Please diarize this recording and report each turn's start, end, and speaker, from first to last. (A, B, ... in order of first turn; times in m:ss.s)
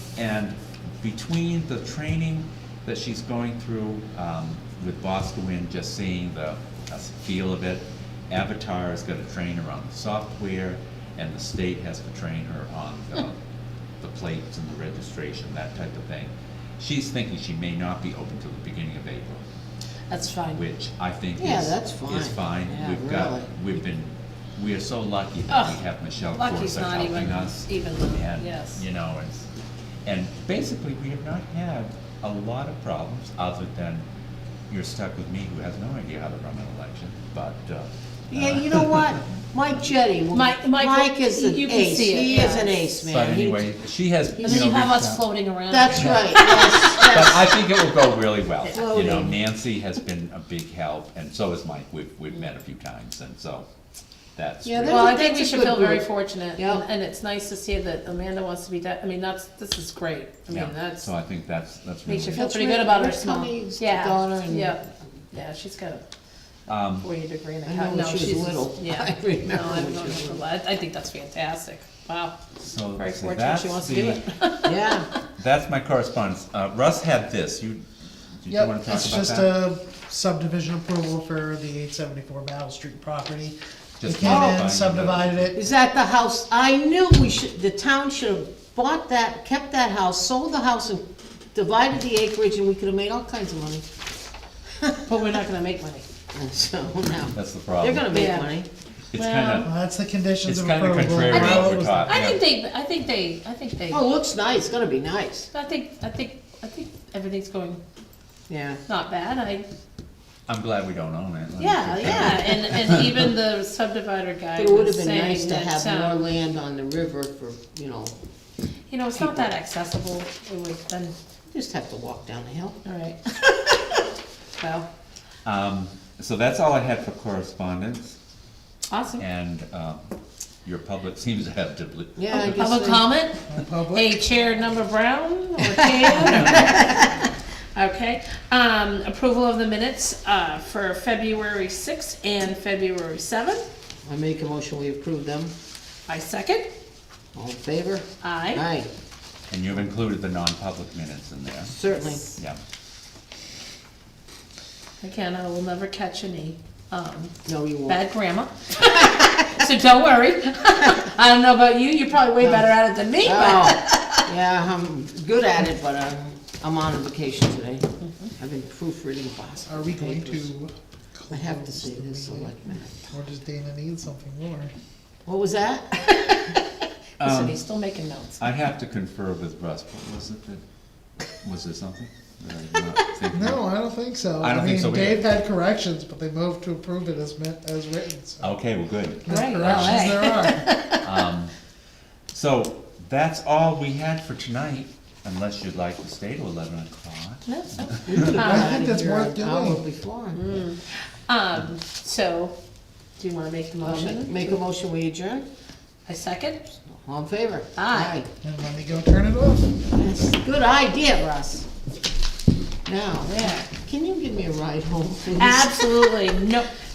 0:00.2-0:13.4 A
0:14.0-0:19.4 A
0:20.1-0:20.6 B
0:20.5-0:29.5 A
0:21.4-0:23.5 C
0:25.5-0:28.8 B
0:30.0-0:34.1 A
0:34.7-0:39.1 A
0:38.3-0:43.7 C
0:40.3-0:42.9 B
0:43.1-0:53.7 A
0:44.4-0:47.1 B
0:44.4-0:44.7 C
0:45.7-0:47.6 C
0:48.7-0:49.4 C
0:54.4-0:55.2 A
0:54.6-0:56.8 C
0:54.9-1:01.1 B
1:00.5-1:02.4 A
1:02.1-1:04.8 B
1:02.3-1:04.8 C
1:05.3-1:06.0 B
1:06.7-1:07.1 A
1:07.0-1:12.4 B
1:07.6-1:10.4 C
1:12.6-1:14.2 A
1:13.0-1:14.9 B
1:14.6-1:15.1 C
1:15.4-1:19.6 A
1:18.5-1:25.6 D
1:24.0-1:25.5 A
1:24.2-1:24.7 C
1:25.5-1:33.8 C
1:35.1-1:36.1 B
1:36.3-1:38.7 C
1:37.3-1:38.1 A
1:38.1-1:38.5 B
1:39.1-1:39.7 A
1:39.1-1:39.7 B
1:39.6-1:42.1 D
1:40.4-1:42.4 A
1:41.2-1:44.0 B
1:43.9-1:45.5 C
1:45.5-1:47.8 B
1:48.5-1:48.8 C
1:48.9-1:49.7 B
1:50.5-1:53.3 A
1:51.6-1:56.3 B
1:54.6-1:58.2 C
1:58.9-2:01.2 B
1:59.2-1:59.5 C
2:01.5-2:02.8 C
2:02.8-2:04.0 B
2:04.6-2:04.8 B
2:05.4-2:08.2 A
2:08.9-2:09.2 B
2:09.2-2:10.0 A
2:10.6-2:12.9 A
2:12.2-2:13.0 C
2:12.3-2:17.2 B
2:13.5-2:14.2 D
2:16.0-2:17.2 C
2:17.8-2:23.6 B
2:24.1-2:25.5 C
2:26.1-2:26.7 B
2:27.4-2:28.9 C
2:28.2-2:28.6 B
2:29.5-2:31.7 A
2:31.7-2:32.3 C
2:35.0-2:44.2 B
2:37.4-2:38.0 C
2:39.1-2:39.6 C
2:42.4-2:50.5 C
2:49.7-2:52.6 D
2:51.3-2:53.1 C
2:53.1-2:54.7 D
2:55.2-2:56.1 C
2:56.1-2:56.6 B
2:57.2-2:57.6 A
2:57.2-2:58.4 B
2:58.4-3:00.6 A
3:01.4-3:03.7 A
3:03.3-3:08.5 D
3:04.4-3:05.2 A
3:08.4-3:10.4 A
3:09.3-3:10.7 D
3:09.3-3:11.0 B
3:11.0-3:11.5 A
3:12.3-3:18.0 A
3:17.5-3:18.8 B
3:18.1-3:20.6 C
3:18.3-3:19.8 D
3:20.3-3:22.5 B
3:23.2-3:24.6 B
3:23.8-3:25.5 C
3:26.1-3:26.6 B
3:26.8-3:28.3 C
3:27.8-3:28.1 B
3:28.4-3:29.8 D
3:29.9-3:31.6 C
3:32.8-3:35.9 C
3:33.2-3:33.7 B
3:35.4-3:36.7 B